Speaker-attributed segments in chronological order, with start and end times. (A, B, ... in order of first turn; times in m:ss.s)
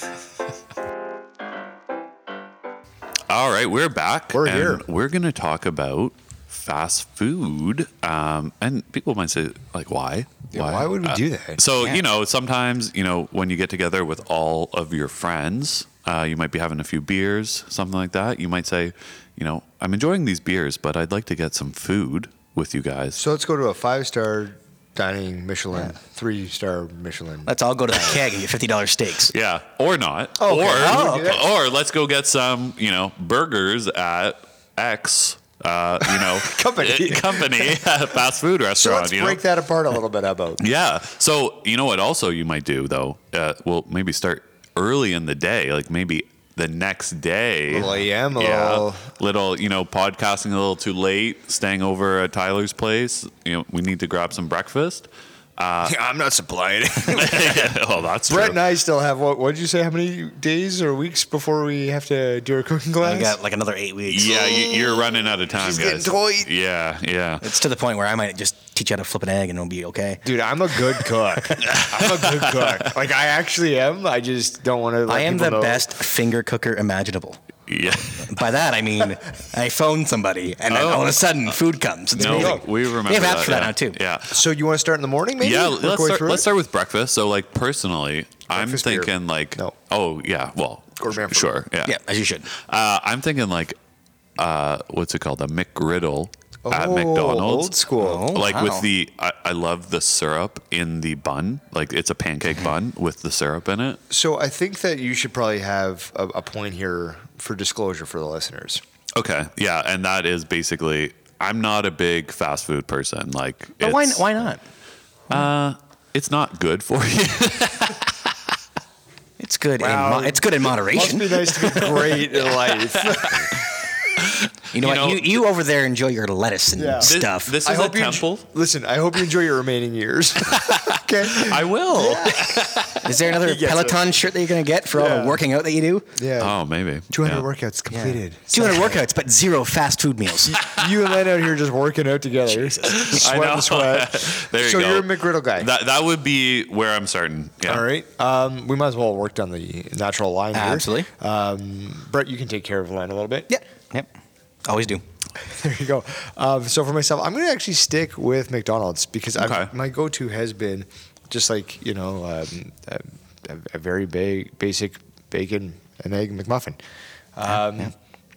0:03.3-0:23.2 A
0:04.3-0:04.8 B
0:10.5-0:11.6 B
0:23.2-0:28.2 B
0:27.4-0:29.3 C
0:29.3-0:39.4 A
0:30.4-0:31.5 B
0:30.5-0:31.4 C
0:36.0-0:37.8 B
0:38.8-0:40.6 B
0:40.6-0:56.0 A
0:47.7-0:49.0 B
0:55.8-0:57.8 B
0:57.1-0:58.6 A
0:58.3-1:03.4 B
1:03.0-1:04.5 C
1:04.1-1:07.5 A
1:04.2-1:06.5 B
1:07.4-1:10.2 C
1:10.2-1:15.9 B
1:11.6-1:12.9 A
1:15.1-1:17.4 C
1:17.7-1:18.4 A
1:18.2-1:24.0 C
1:20.7-1:21.5 A
1:22.1-1:24.4 A
1:22.2-1:22.7 B
1:24.3-1:26.5 B
1:25.4-1:32.0 A
1:28.5-1:29.7 B
1:31.0-1:31.5 B
1:31.8-1:32.5 C
1:32.5-1:33.8 A
1:34.4-1:44.0 A
1:36.6-1:38.4 B
1:38.0-1:38.9 C
1:44.1-1:48.8 B
1:49.2-1:54.5 A
1:53.8-1:54.6 C
1:55.3-1:58.3 A
1:59.4-2:01.9 C
1:59.8-2:03.6 B
2:02.9-2:05.4 A
2:04.7-2:07.6 C
2:06.7-2:12.4 B
2:07.0-2:08.4 A
2:10.5-2:13.1 A
2:11.9-2:12.5 C
2:13.0-2:16.1 C
2:13.3-2:14.2 B
2:14.9-2:15.4 B
2:16.1-2:16.6 B
2:16.4-2:17.5 A
2:17.1-2:19.0 B
2:17.9-2:20.6 C
2:20.4-2:25.7 B
2:22.5-2:23.2 C
2:22.8-2:27.8 A
2:27.6-2:33.5 B
2:30.5-2:31.1 C
2:33.5-2:34.1 C
2:34.6-2:35.0 C
2:35.4-2:46.8 B
2:39.4-2:39.7 A
2:47.3-2:47.9 B
2:47.5-2:47.9 C